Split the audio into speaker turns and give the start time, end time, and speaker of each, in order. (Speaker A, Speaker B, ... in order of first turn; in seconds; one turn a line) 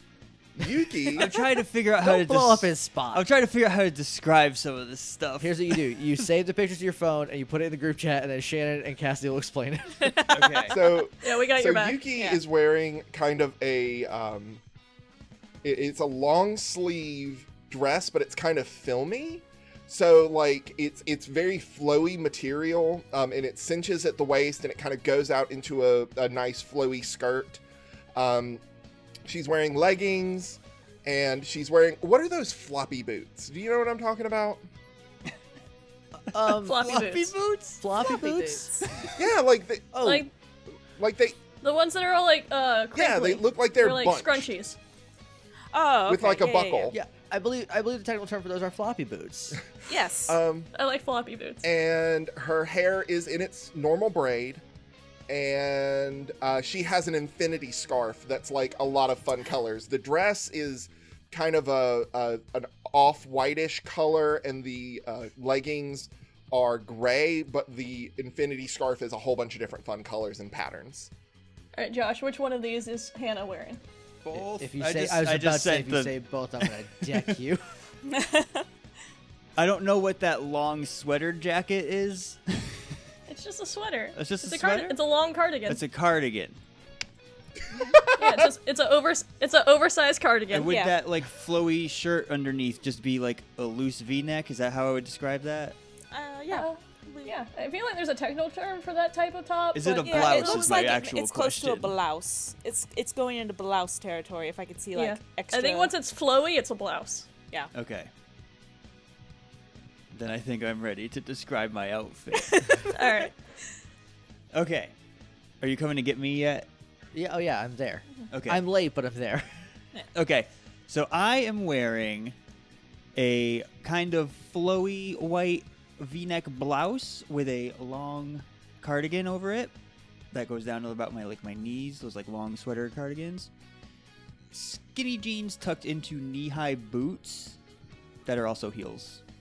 Speaker A: 0.6-1.3
Speaker B: 1.1-5.8
Speaker C: 2.0-3.2
Speaker C: 5.4-10.4
Speaker D: 10.0-10.7
Speaker B: 10.3-10.8
Speaker A: 10.7-14.6
Speaker E: 11.2-12.0
Speaker D: 12.2-12.4
Speaker A: 15.6-27.6
Speaker A: 28.1-28.6
Speaker A: 29.2-34.6
Speaker C: 36.3-37.2
Speaker B: 36.4-37.8
Speaker E: 36.6-37.3
Speaker C: 37.8-38.7
Speaker D: 38.0-38.9
Speaker B: 38.9-39.2
Speaker A: 39.2-40.0
Speaker C: 39.9-40.3
Speaker E: 40.0-40.3
Speaker A: 41.0-41.4
Speaker E: 41.6-44.8
Speaker A: 42.9-44.5
Speaker D: 45.7-46.9
Speaker A: 46.1-47.0
Speaker C: 46.9-49.6
Speaker D: 49.9-50.4
Speaker A: 50.2-50.7
Speaker E: 50.7-51.6
Speaker A: 51.6-54.6
Speaker A: 55.3-71.1
Speaker E: 71.8-73.8
Speaker B: 74.2-77.3
Speaker C: 74.3-77.7
Speaker D: 78.1-78.7
Speaker B: 79.6-83.0
Speaker E: 83.3-85.8
Speaker B: 84.1-85.0
Speaker B: 85.7-86.6
Speaker A: 87.9-88.4
Speaker E: 88.2-90.8
Speaker B: 90.5-95.8
Speaker D: 90.6-91.0
Speaker D: 96.1-97.3
Speaker E: 96.5-100.9
Speaker B: 99.7-101.9
Speaker D: 100.0-105.9
Speaker E: 104.9-107.3
Speaker B: 107.7-108.1
Speaker B: 110.1-112.8
Speaker D: 112.4-113.3
Speaker E: 112.9-113.3
Speaker B: 114.5-114.9
Speaker B: 115.6-116.7
Speaker C: 117.1-119.7
Speaker B: 118.3-118.6
Speaker B: 120.1-122.3
Speaker B: 123.1-129.7
Speaker B: 130.3-133.5
Speaker B: 134.5-137.6
Speaker B: 138.2-139.2